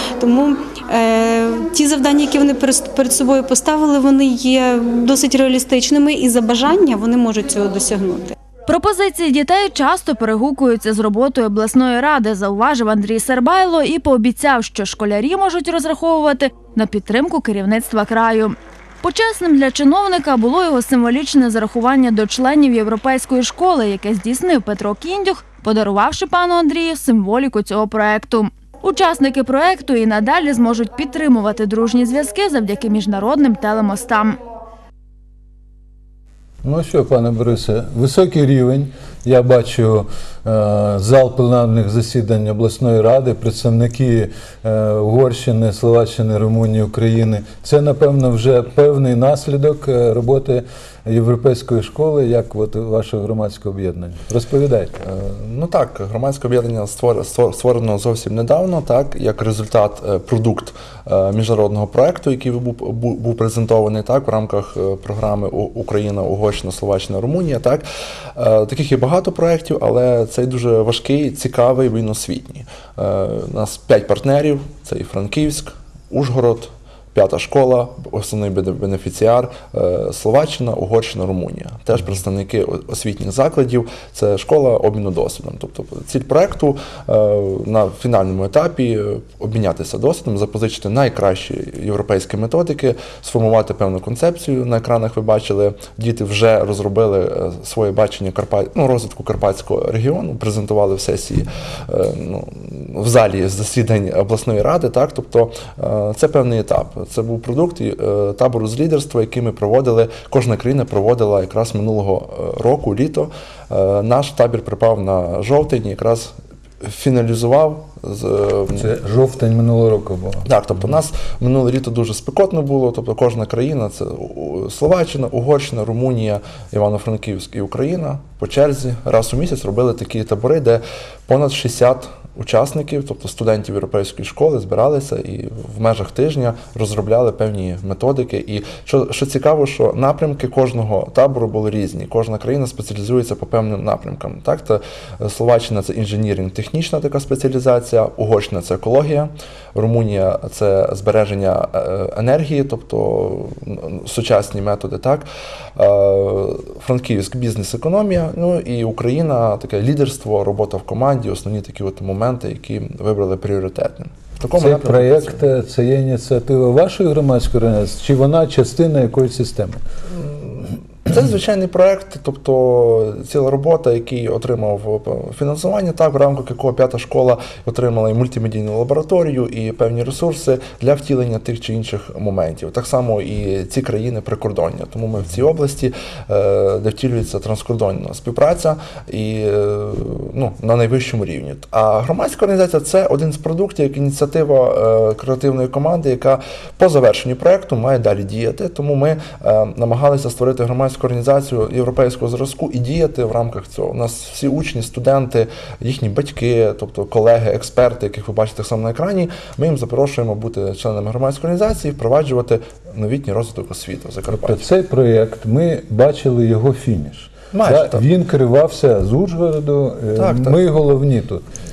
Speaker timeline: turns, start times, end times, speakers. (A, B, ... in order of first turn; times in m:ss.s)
0:00.2-0:08.4 A
0:08.7-0:34.4 B
0:36.6-0:55.0 C
0:55.0-1:56.3 D
1:56.8-1:58.9 D
1:58.8-2:00.9 C
2:00.4-2:45.4 D
2:44.6-2:49.8 C
2:50.1-3:34.7 D
3:34.3-3:41.4 C
3:37.5-3:38.0 D
3:40.2-3:40.6 D